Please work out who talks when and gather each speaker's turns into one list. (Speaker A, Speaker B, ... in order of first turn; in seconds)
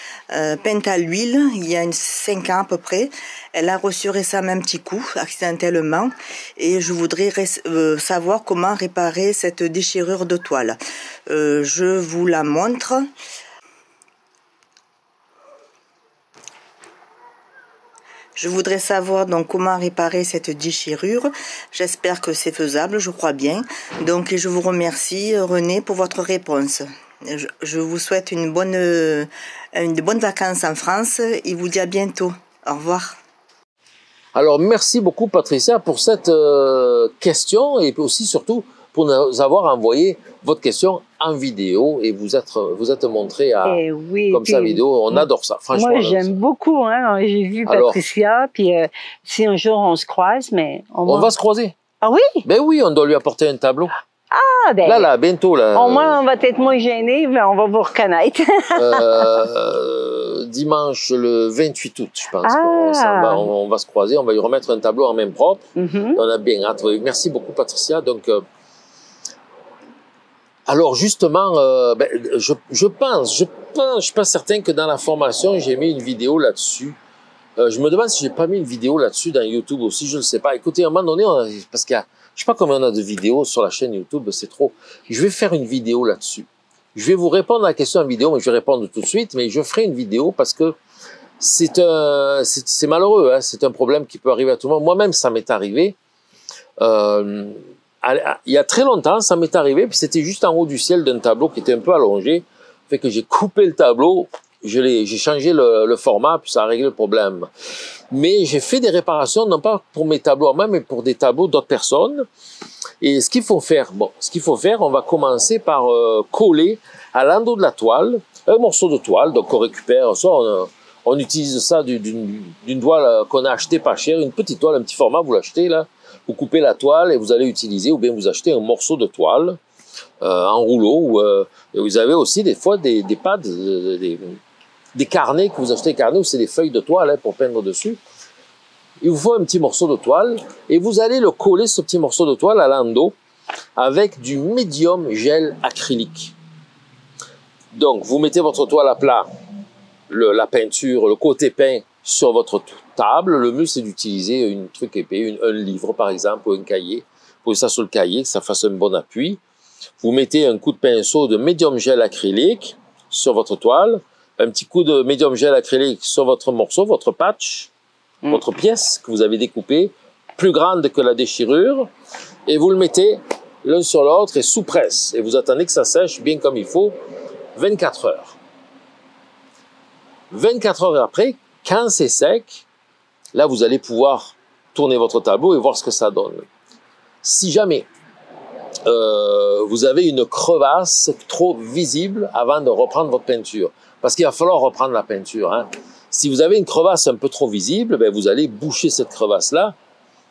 Speaker A: 0.3-13.1, 18.4-33.2
Speaker B: 34.4-46.3, 47.7-48.0, 51.1-51.8, 52.5-53.9, 54.9-56.2, 58.8-68.4, 70.7-77.0, 77.6-90.8, 91.4-96.0, 96.8-107.5, 108.1-112.3, 113.0-129.6, 130.2-134.4, 134.9-138.0, 139.0-143.1, 143.8-146.3, 147.7-149.3, 150.1-159.4, 160.0-167.7, 168.3-171.9, 172.5-176.9, 177.6-178.4, 180.3-182.6, 183.3-186.5, 187.2-187.8, 188.8-199.7
Speaker C: 43.6-45.2, 45.7-51.3, 52.0-52.5, 54.3-55.1, 55.8-59.4, 62.4-63.5, 65.8-66.2